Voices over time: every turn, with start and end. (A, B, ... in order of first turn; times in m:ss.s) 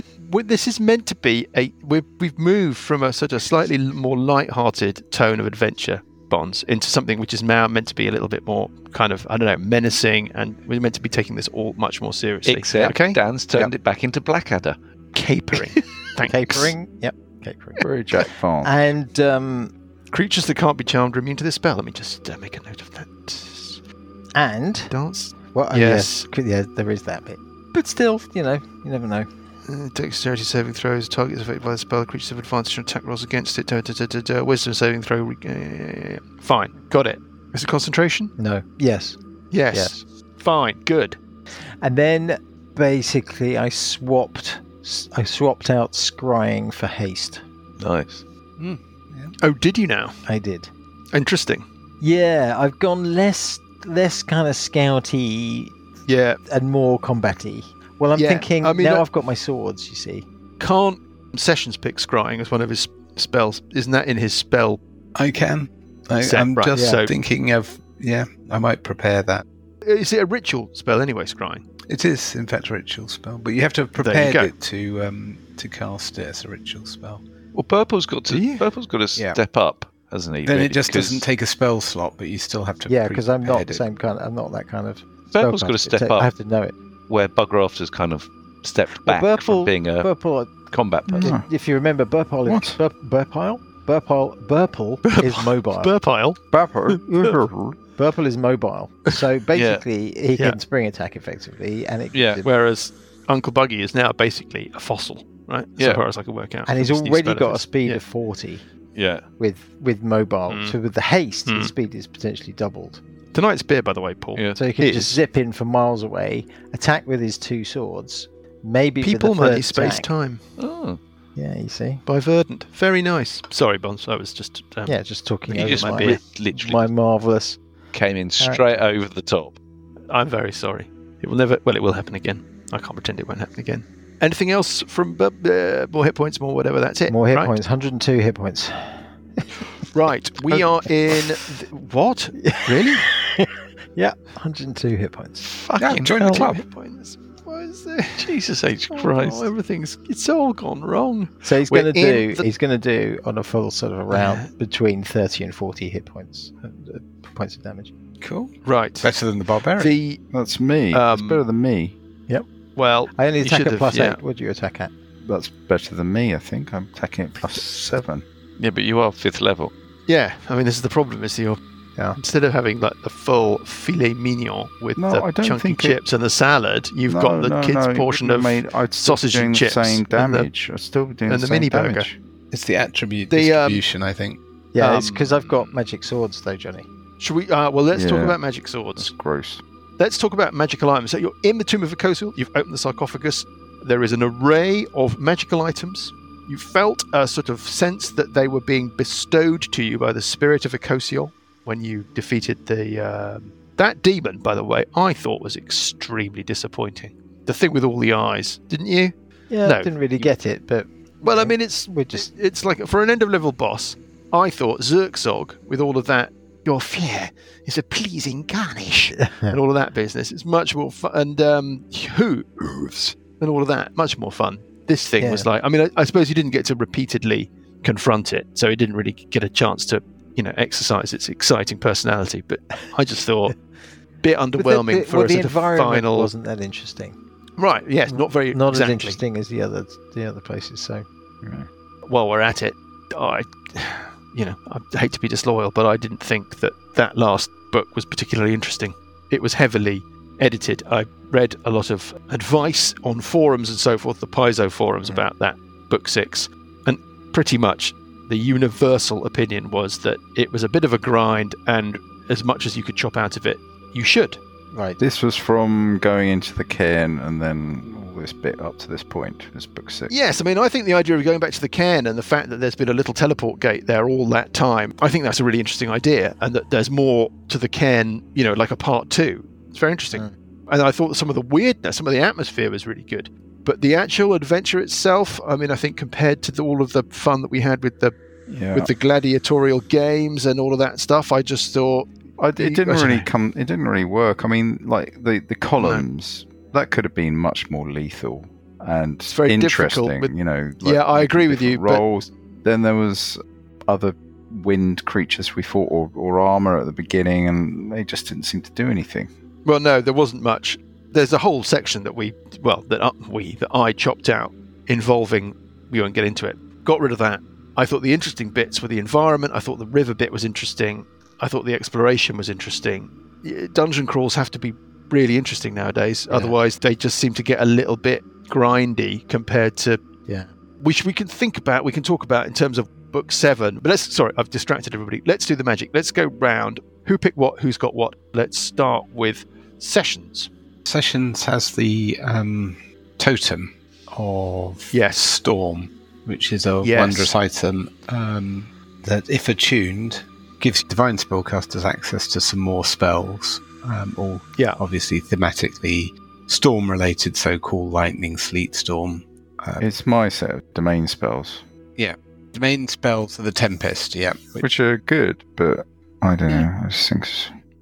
0:00.2-0:13.2 A
0:12.4-0:14.8 B
0:15.1-0:16.7 A
0:16.2-0:17.8 C
0:17.8-0:18.8 D
0:18.6-0:19.7 C
0:20.1-0:23.8 A
0:24.3-0:24.9 C
0:24.9-0:26.3 A
0:25.4-0:29.3 C
0:29.6-0:38.3 A
0:38.4-0:39.2 C
0:39.5-0:41.2 A
0:41.8-0:47.4 C
0:47.8-0:48.2 B
0:48.6-0:49.3 E
0:49.4-0:50.2 A
0:50.2-0:50.7 C
0:51.1-0:51.6 A
0:52.0-0:55.8 C
0:56.0-0:56.4 A
0:56.5-1:00.2 C
0:58.1-0:59.1 A
1:00.6-1:04.8 A
1:05.1-1:09.4 E
1:06.2-1:07.1 A
1:06.7-1:07.1 C
1:09.8-1:11.6 A
1:11.9-1:17.2 E
1:14.0-1:14.5 A
1:17.5-1:21.2 B
1:18.3-1:18.6 A
1:20.4-1:23.8 E
1:22.9-1:26.7 C
1:25.3-1:26.3 B
1:27.1-1:30.1 B
1:29.0-1:30.6 C
1:30.7-1:31.4 B
1:31.1-1:31.4 D
1:31.1-1:35.9 C
1:32.4-1:32.8 D
1:35.0-1:36.4 A
1:36.5-1:37.8 D
1:36.9-1:37.3 A
1:38.0-1:42.5 C
1:39.5-1:39.8 B
1:42.1-1:42.4 B
1:42.4-1:48.0 A
1:45.8-1:46.0 B
1:46.6-1:48.6 C
1:48.9-1:49.3 B
1:49.4-1:53.0 C
1:50.5-1:50.8 A
1:51.5-1:51.7 A
1:53.3-1:55.2 A
1:54.6-2:00.1 C
1:59.0-2:00.4 A
2:00.6-2:01.0 B
2:01.4-2:02.0 C
2:02.0-2:05.0 A
2:04.8-2:07.6 C
2:05.5-2:06.8 B
2:05.5-2:06.2 A
2:07.9-2:09.6 B
2:08.4-2:08.6 C
2:10.1-2:17.6 A
2:17.1-2:19.6 C
2:19.9-2:23.1 A
2:22.4-2:25.5 C
2:25.5-2:28.3 A
2:25.8-2:26.6 E
2:28.2-2:29.5 B
2:28.9-2:32.5 A
2:31.4-2:37.9 C
2:34.1-2:34.5 A
2:38.2-2:40.0 E
2:38.6-2:39.1 A
2:39.8-2:40.2 A
2:40.3-2:42.0 D
2:40.9-2:41.4 A
2:42.8-2:44.2 A
2:43.1-2:44.9 C
2:45.2-2:48.2 D
2:48.6-2:49.7 B
2:50.1-2:51.6 A
2:52.1-3:00.5 A
2:55.0-2:56.0 D
2:57.1-3:02.2 D
3:01.3-3:02.1 A
3:02.5-3:04.4 E
3:03.3-3:03.8 A
3:04.7-3:06.8 C
3:04.8-3:05.7 A
3:07.2-3:09.1 A
3:07.9-3:08.4 D
3:09.0-3:09.6 D
3:10.0-3:30.3 A
3:29.5-3:32.3 C
3:31.2-3:53.6 A
3:39.2-3:39.6 C
3:45.2-3:45.5 C
3:54.2-3:56.3 A
3:54.5-3:57.2 C
3:57.6-3:59.2 A
3:58.1-4:01.0 C
4:01.4-4:01.7 D
4:02.0-4:24.4 A
4:24.7-4:25.0 C
4:25.0-4:30.1 D
4:30.1-4:48.2 A
4:48.5-4:48.9 D
4:48.7-4:53.3 A
4:52.4-5:09.3 D
4:55.8-4:56.0 A
4:59.3-5:02.0 A
5:09.6-5:30.0 A
5:26.3-5:26.6 C
5:30.8-5:40.5 A
5:40.8-5:59.9 E
5:44.9-5:45.4 A
5:46.8-5:47.3 A
5:54.6-5:54.8 A
5:59.8-6:01.6 D
6:02.0-6:04.6 E
6:04.6-6:07.5 D